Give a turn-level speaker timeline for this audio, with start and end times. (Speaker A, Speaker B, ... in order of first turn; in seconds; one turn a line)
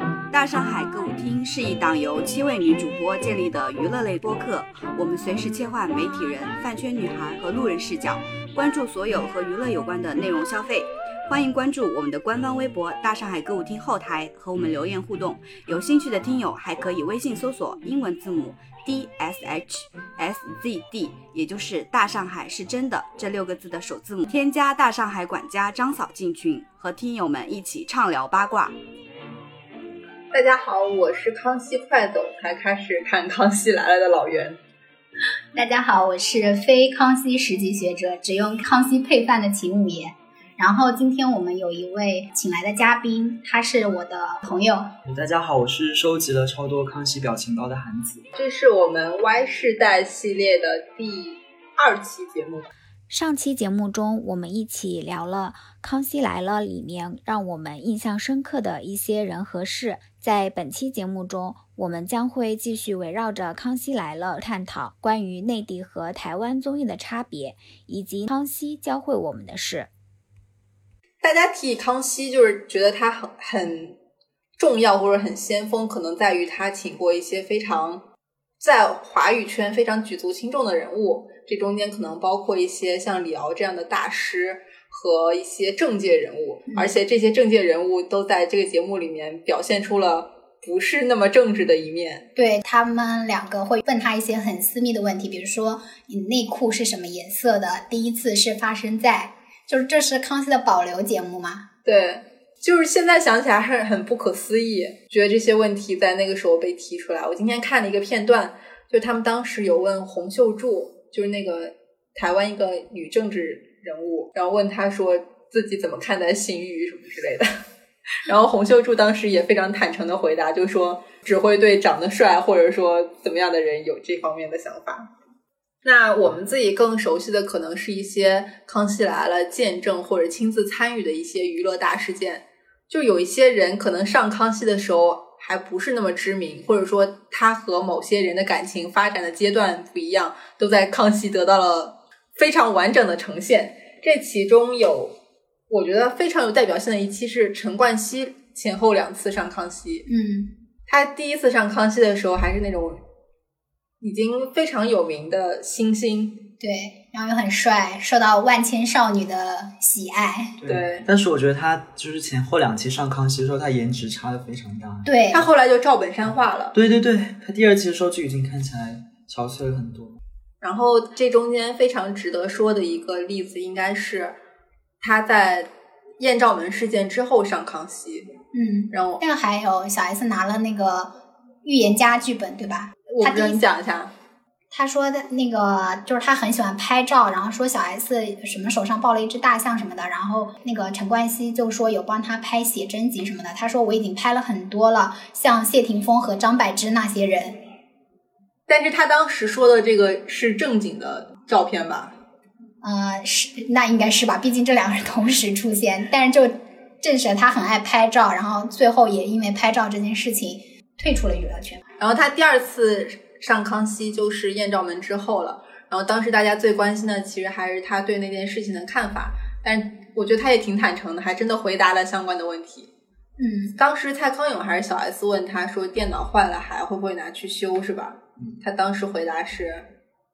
Speaker A: 0.3-28.8
Speaker B: 30.3-34.6
Speaker C: 35.5-44.9
Speaker D: 45.1-48.3
Speaker B: 48.4-52.7
Speaker E: 53.1-69.9
Speaker B: 71.2-74.0
Speaker B: 74.6-78.0
Speaker B: 78.6-92.3
Speaker C: 92.4-101.7
Speaker B: 101.9-117.5
Speaker B: 118.2-125.1
Speaker B: 125.8-145.2
Speaker B: 145.7-150.1
Speaker C: 150.1-150.5
Speaker B: 150.9-153.0
Speaker B: 154.0-156.5
Speaker C: 156.6-160.6
Speaker D: 160.6-165.1
Speaker B: 160.7-161.1
Speaker C: 165.1-165.5
Speaker B: 165.3-166.8
Speaker D: 166.7-170.2
Speaker B: 170.6-174.4
Speaker B: 175.0-178.3
Speaker C: 178.5-183.6
Speaker B: 178.9-179.2
Speaker B: 183.1-184.1
Speaker C: 184.7-197.6
Speaker B: 198.7-202.2
Speaker C: 202.8-211.8
Speaker B: 212.0-222.9
Speaker C: 223.4-223.8
Speaker B: 223.8-229.9